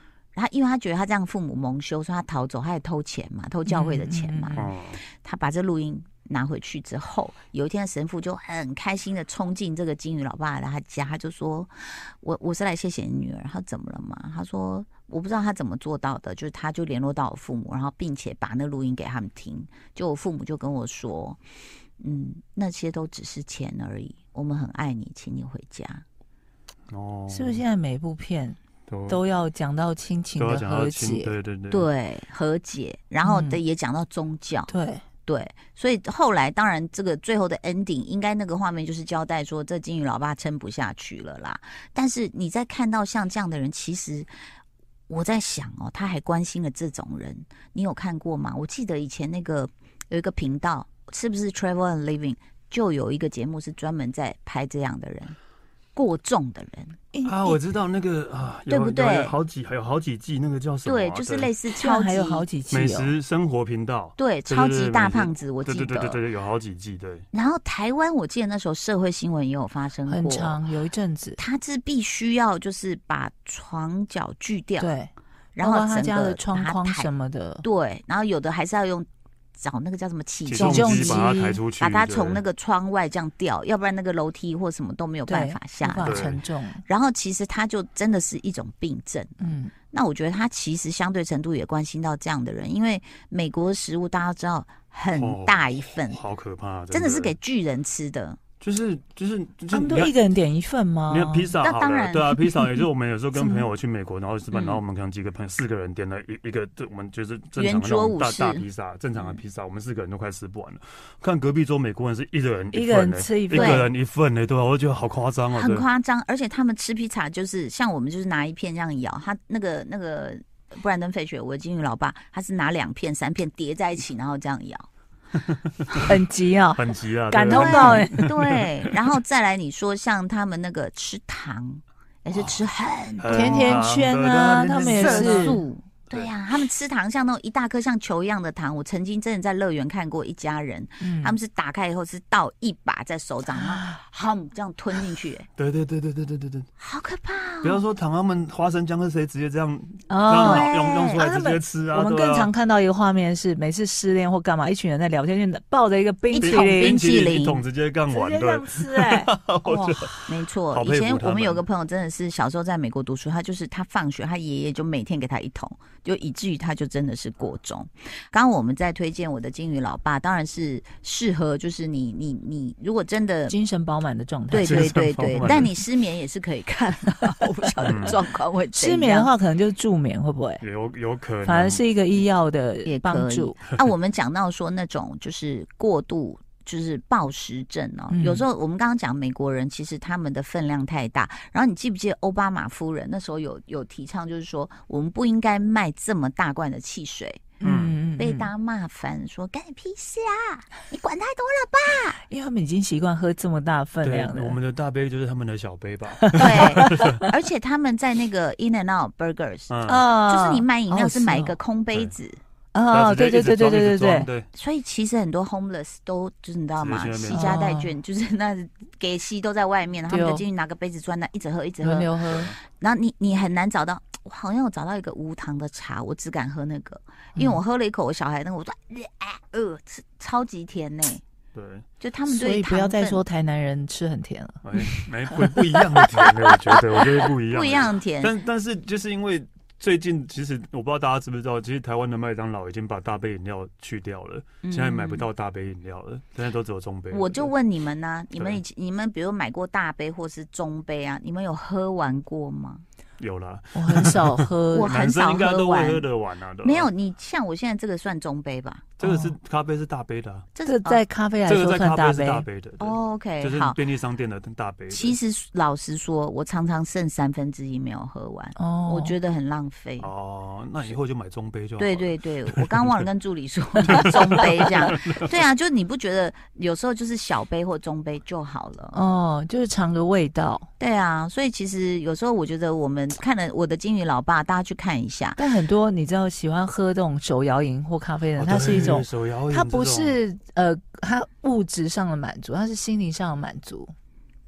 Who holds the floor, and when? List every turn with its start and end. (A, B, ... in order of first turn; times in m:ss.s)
0:00.3-0:21.4 A
0:03.6-0:04.7 B
0:04.6-0:05.0 C
0:22.0-0:26.0 A
0:26.9-0:27.6 C
0:27.3-0:31.4 B
0:28.9-0:29.2 C
0:30.4-0:31.9 C
0:31.7-0:34.7 A
0:33.2-0:33.6 B
0:34.7-0:35.0 B
0:35.2-0:44.3 A
0:45.1-0:55.4 A
0:55.9-0:57.0 A
0:57.1-0:57.6 B
0:57.2-1:01.5 C
0:58.7-0:59.4 A
1:00.8-1:02.5 A
1:01.6-1:03.1 B
1:02.7-1:07.2 C
1:04.2-1:06.2 A
1:07.3-1:10.6 A
1:10.0-1:11.4 B
1:11.4-1:14.9 A
1:14.8-1:17.6 B
1:15.6-1:17.1 A
1:17.6-1:26.3 A
1:20.4-1:22.4 C
1:20.5-1:21.7 B
1:25.2-1:26.8 B
1:26.0-1:26.4 C
1:26.8-1:36.2 A
1:29.4-1:29.7 B
1:35.1-1:37.3 C
1:36.9-1:38.4 A
1:38.6-1:40.1 C
1:39.7-1:41.6 B
1:41.1-1:55.8 C
1:41.6-1:42.4 A
1:42.4-1:42.8 B
1:44.5-1:44.8 A
1:47.6-1:49.4 A
1:52.7-1:53.9 B
1:53.5-1:53.8 A
1:55.5-2:04.9 A
2:05.4-2:06.1 C
2:06.0-2:08.3 B
2:06.7-2:09.0 C
2:07.5-2:13.9 A
2:12.3-2:12.6 C
2:13.2-2:15.6 C
2:13.3-2:15.6 B
2:14.7-2:25.5 A
2:21.0-2:21.4 B
2:23.5-2:24.0 B
2:25.6-2:26.7 C
2:26.8-2:27.8 A
2:27.6-2:32.5 C
2:30.1-2:37.1 B
2:30.4-2:31.2 A
2:36.3-2:37.6 A
2:36.4-2:41.6 C
2:38.1-2:40.1 B
2:40.3-2:53.5 A
2:53.5-2:55.7 B
2:54.5-2:59.3 A
2:54.5-2:55.7 C
2:57.8-2:58.2 C
2:58.7-3:00.6 B
3:00.6-3:01.8 C
3:01.4-3:03.6 B
3:02.8-3:17.5 A
3:08.1-3:08.5 B
3:17.6-3:18.5 B
3:17.6-3:18.0 C
3:18.2-3:22.2 A
3:22.2-3:24.6 B
3:24.0-3:27.2 C
3:26.2-3:27.1 B
3:26.4-3:32.4 A
3:29.7-3:30.0 C
3:29.8-3:31.6 B
3:32.7-3:34.3 B
3:32.9-3:34.5 C
3:34.5-3:51.2 A
3:36.8-3:37.5 C
3:37.3-3:37.9 B
3:40.1-3:40.4 B
3:41.8-3:42.5 B
3:42.3-3:42.6 C
3:47.3-3:47.6 B
3:51.5-3:51.8 C
3:52.0-3:53.2 A
3:52.2-3:56.8 B
3:54.6-4:07.5 C
3:57.5-3:58.3 A
4:04.6-4:05.3 A
4:07.1-4:12.8 A
4:08.4-4:08.6 C
4:13.2-4:16.9 C
4:13.7-4:14.9 B
4:14.7-4:16.1 A
4:16.6-4:18.9 A
4:19.0-4:20.5 C
4:19.0-4:19.3 B
4:20.6-4:21.0 A
4:20.6-4:22.5 B
4:21.4-4:25.2 C
4:22.8-4:23.8 A
4:24.9-4:30.1 A
4:28.5-4:29.2 B
4:30.0-4:33.0 C
4:31.8-4:39.0 A
4:33.8-4:35.4 C
4:38.9-4:40.7 B
4:40.8-4:45.4 A
4:45.4-4:53.9 B
4:48.4-4:50.2 C